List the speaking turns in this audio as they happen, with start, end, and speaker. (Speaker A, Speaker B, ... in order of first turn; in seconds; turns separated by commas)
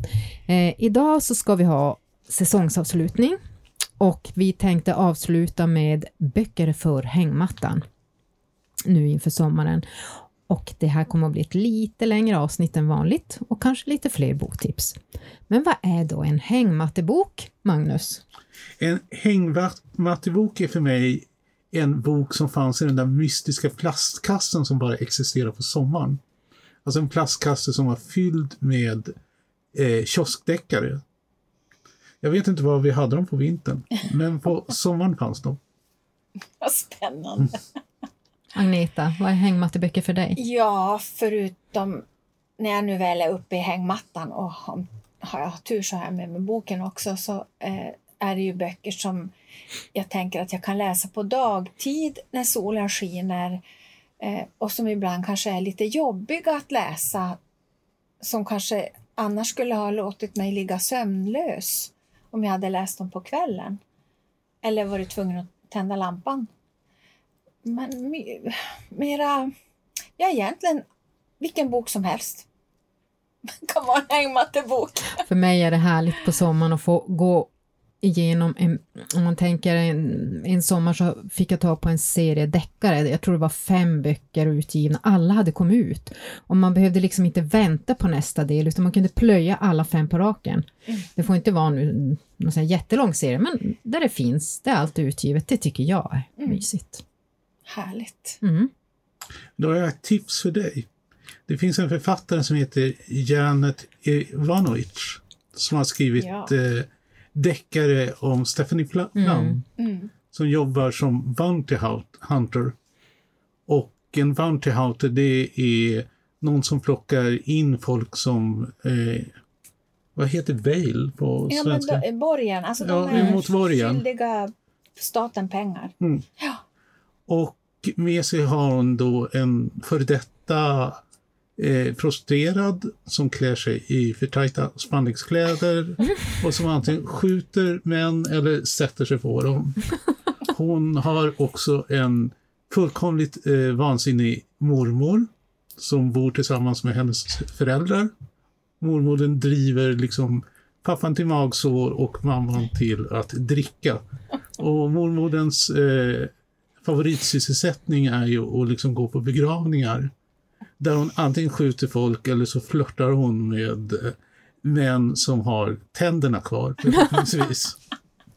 Speaker A: 0.5-3.4, Speaker A: 4.0-7.8, Speaker A: 8.8-9.8, Speaker A: 10.5-18.2, Speaker B: 18.8-26.2, Speaker B: 26.8-29.1, Speaker B: 29.7-31.0, Speaker B: 32.2-35.6, Speaker C: 36.6-37.6, Speaker A: 38.5-40.4, Speaker C: 40.4-42.0, Speaker C: 42.6-49.3, Speaker C: 49.9-53.6, Speaker C: 54.2-57.4, Speaker C: 58.2-63.8, Speaker C: 64.6-66.5, Speaker C: 67.6-69.5, Speaker C: 70.2-70.8, Speaker C: 71.4-72.5, Speaker C: 73.5-75.2, Speaker A: 75.2-77.5, Speaker A: 78.0-97.0, Speaker C: 97.7-98.4, Speaker A: 98.4-98.7, Speaker B: 99.6-100.8, Speaker B: 101.5-109.6, Speaker C: 106.2-106.5, Speaker A: 109.2-109.6, Speaker C: 109.8-110.1, Speaker B: 110.3-112.7, Speaker B: 113.7-119.3, Speaker B: 120.2-122.0, Speaker C: 121.5-126.6, Speaker B: 122.8-124.0, Speaker B: 127.3-131.0, Speaker B: 131.6-139.9, Speaker B: 140.4-148.1, Speaker B: 148.8-154.0, Speaker B: 154.6-156.3, Speaker B: 156.8-160.1, Speaker B: 160.8-167.8